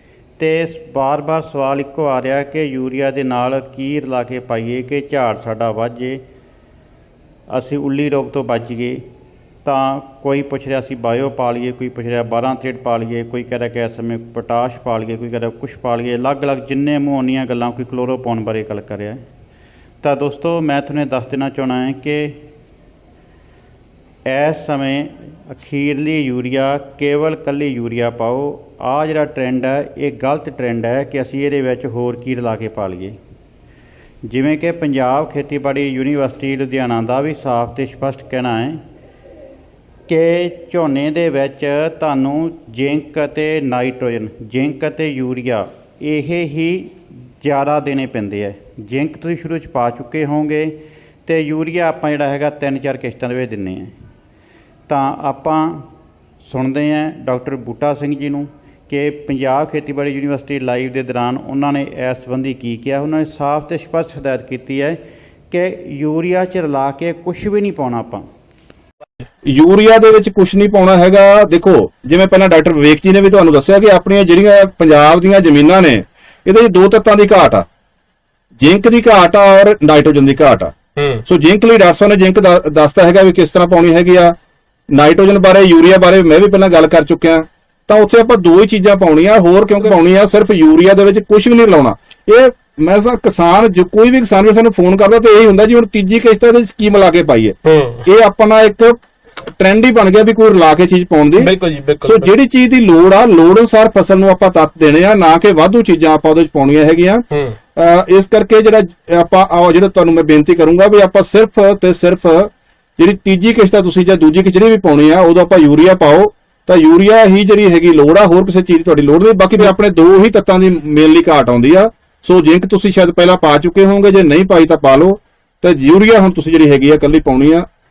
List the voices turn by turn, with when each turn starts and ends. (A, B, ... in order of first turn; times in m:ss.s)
0:00.4-0:06.2 A
0:07.5-0:09.0 A
0:09.6-0:19.2 A
0:20.0-0:22.4 A
0:24.2-0:33.2 A
0:34.2-0:38.8 A
0:40.1-0:53.9 A
0:54.9-0:55.9 A
0:56.4-1:05.0 A
1:05.5-1:08.2 A
1:09.4-1:17.6 B
1:18.6-1:24.3 B
1:21.0-1:21.2 C
1:24.9-1:39.0 B
1:37.6-1:38.0 C
1:39.6-1:41.5 B
1:41.4-1:42.3 C
1:42.0-1:47.2 B
1:47.3-1:47.6 C
1:47.8-2:07.6 B